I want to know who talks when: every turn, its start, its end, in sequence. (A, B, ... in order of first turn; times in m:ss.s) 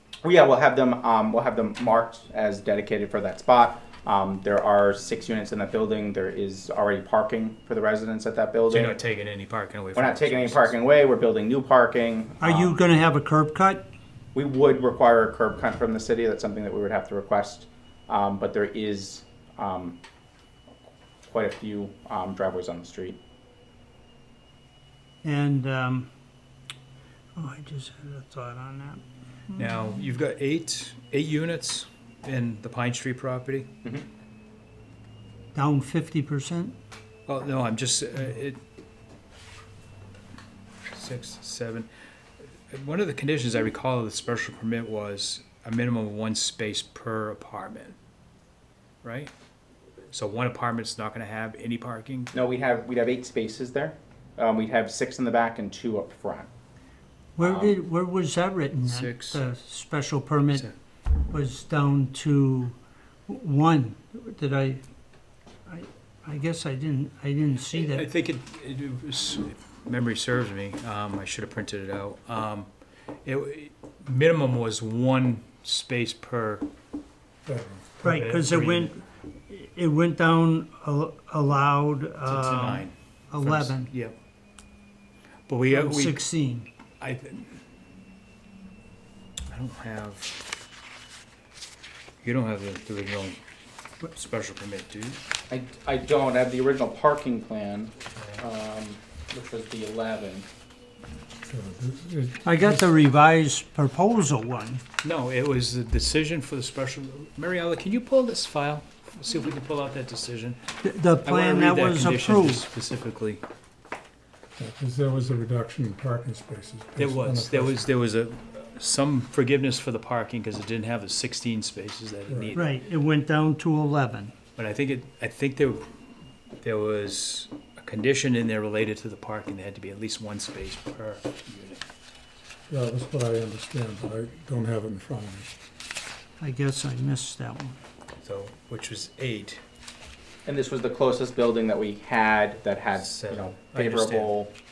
0:00.2-0:09.0 A
0:08.7-0:10.8 B
0:10.0-0:12.8 A
0:12.4-0:13.8 C
0:14.3-0:20.0 A
0:21.2-0:23.2 A
0:25.2-0:26.1 C
0:27.4-0:29.0 C
0:29.6-0:33.7 B
0:35.5-0:36.7 C
0:37.3-0:38.6 B
0:40.9-0:41.9 B
0:42.7-0:48.0 B
0:49.0-0:49.3 B
0:50.1-0:52.3 B
0:52.3-0:56.5 A
0:57.4-1:00.7 C
0:57.4-0:57.8 A
0:58.8-0:59.4 B
1:01.3-1:04.8 C
1:05.7-1:08.1 C
1:07.7-1:12.7 B
1:13.2-1:16.6 B
1:17.5-1:17.8 D
1:18.0-1:18.9 B
1:18.0-1:23.9 C
1:22.3-1:24.1 B
1:25.5-1:26.2 B
1:25.7-1:26.7 C
1:27.0-1:27.6 B
1:29.5-1:30.3 B
1:32.2-1:33.4 B
1:34.0-1:35.2 B
1:35.5-1:40.4 A
1:41.5-1:42.8 D
1:42.4-1:44.8 C
1:45.0-1:50.6 B
1:50.8-1:52.6 C
1:51.2-1:53.4 B
1:54.6-1:57.7 D
1:57.0-2:02.7 B
2:02.5-2:04.3 C
2:04.6-2:05.9 B
2:06.6-2:11.8 B
2:12.7-2:15.5 D
2:16.4-2:17.8 C
2:18.2-2:19.6 B
2:20.4-2:24.5 A
2:22.9-2:24.4 B